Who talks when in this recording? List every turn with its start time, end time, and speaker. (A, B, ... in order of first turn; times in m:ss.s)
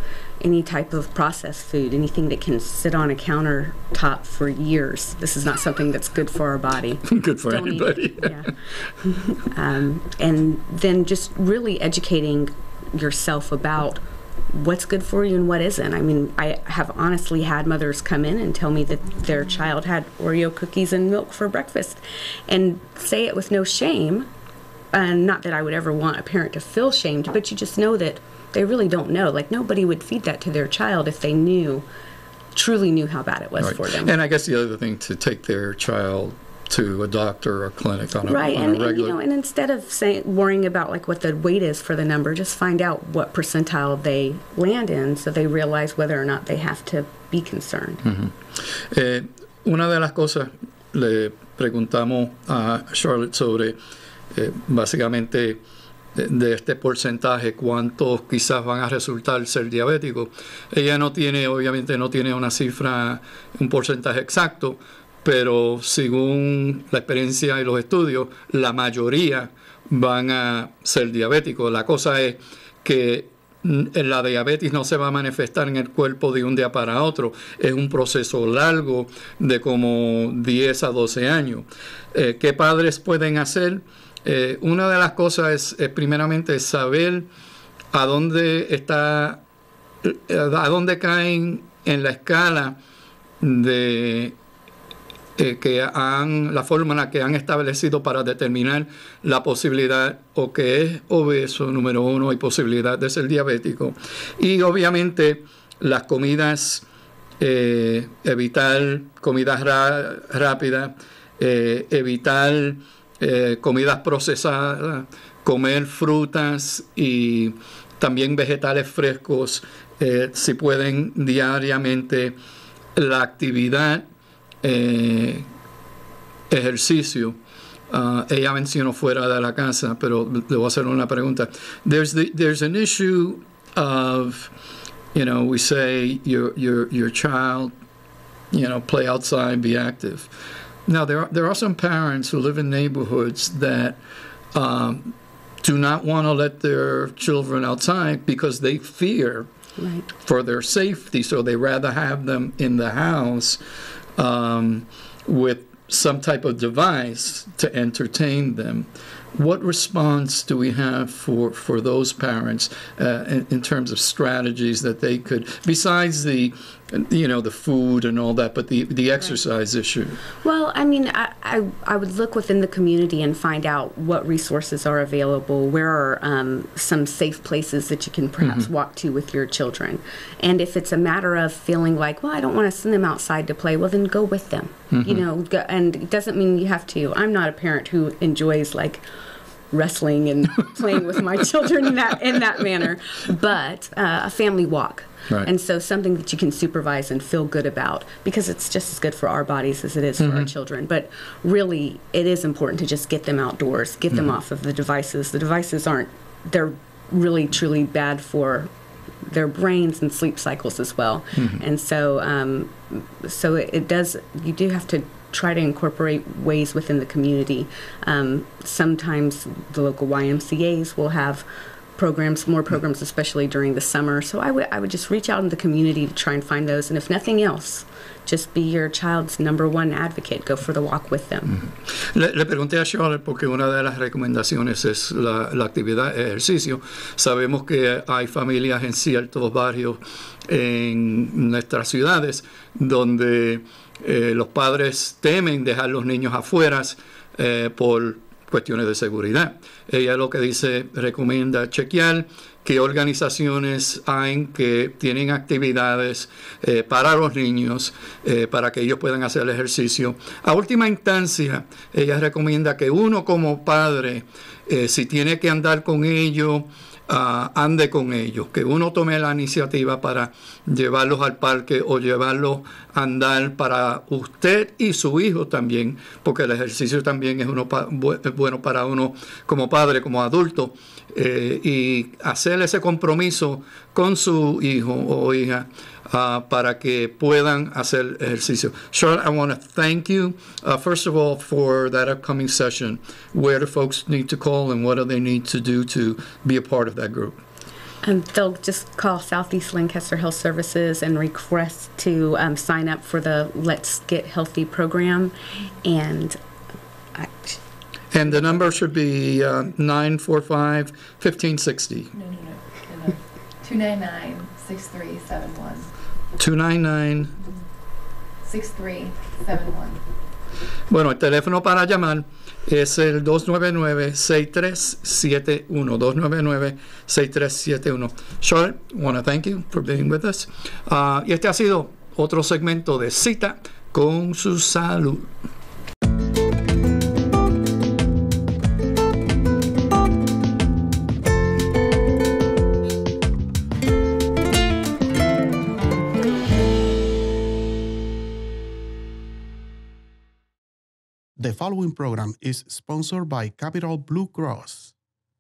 0:00.4-0:24.3 A
0:07.1-0:08.5 B
0:24.9-0:31.8 A
0:32.6-0:34.1 A
0:33.6-0:39.1 B
0:38.2-0:48.0 A
0:48.0-0:53.8 B
0:54.3-0:55.6 B
0:56.1-1:27.3 B
1:27.9-1:29.4 B
1:30.0-1:32.8 B
1:33.4-1:34.4 B
1:35.4-1:46.8 B
1:47.4-2:02.4 B
2:03.0-2:04.1 B
2:04.6-2:05.5 B
2:06.5-2:07.4 B
2:07.9-2:14.5 B
2:15.1-2:17.7 B
2:18.5-2:20.4 B
2:20.9-2:24.0 B
2:24.5-2:29.5 B
2:29.8-2:30.0 A
2:30.2-2:33.6 B
2:34.2-2:50.2 B
2:50.4-3:09.0 A
3:04.9-3:05.2 B
3:09.7-3:28.7 A
3:20.2-3:20.5 B
3:29.2-3:41.4 A
3:31.4-3:31.6 B
3:42.0-3:51.6 A
3:51.9-4:57.4 B
4:58.0-5:06.4 A
5:07.1-5:07.6 A
5:08.1-5:12.1 B
5:12.1-5:15.9 C
5:16.4-5:17.4 B
5:18.4-5:20.0 C
5:20.9-5:35.3 B
5:51.4-5:54.9 D